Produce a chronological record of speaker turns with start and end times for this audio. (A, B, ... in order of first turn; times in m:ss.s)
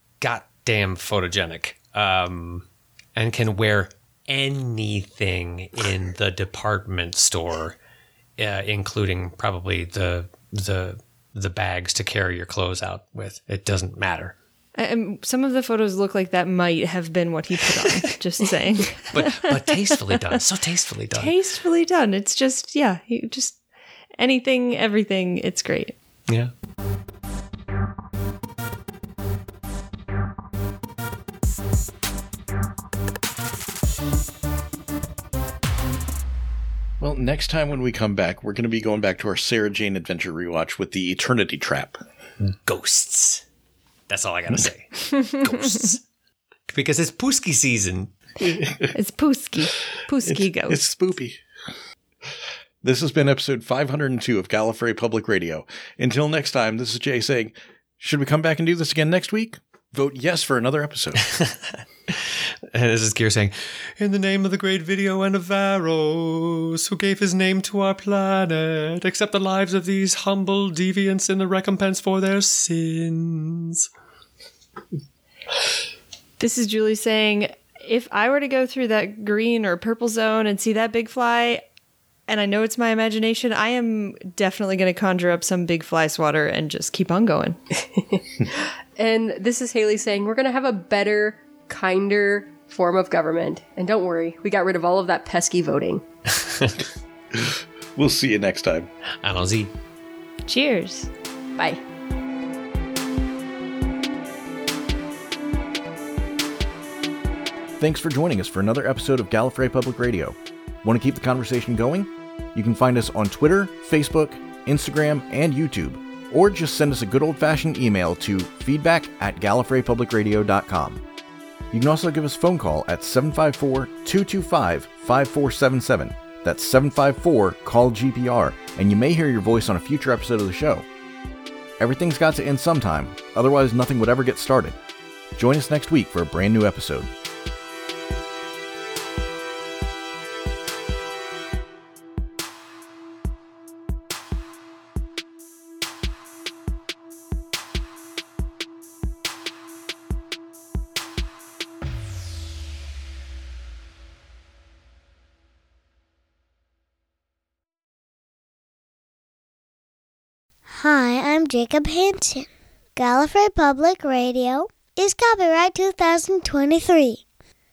0:00.2-0:07.8 A
0:08.4-0:14.3 A
0:14.8-0:20.0 B
0:19.1-0:21.3 A
0:21.1-0:23.6 B
0:24.2-0:25.9 B
0:37.0-0:42.0 C
0:42.4-0:43.4 A
0:44.1-0:46.0 A
0:46.7-0:48.1 A
0:48.4-0:48.9 C
0:48.9-0:50.8 B
0:50.2-0:51.4 C
0:52.8-1:01.2 C
1:01.2-1:13.9 A
1:16.4-1:21.6 B
1:22.3-1:27.6 B
1:27.9-1:36.0 D
1:36.4-1:36.8 A
1:37.3-1:38.9 C
1:39.2-1:39.7 A
1:40.4-1:41.1 B
1:47.8-2:01.0 C
2:01.7-2:10.9 C
2:11.8-2:14.8 C
2:15.4-2:17.1 C
2:40.7-2:47.2 E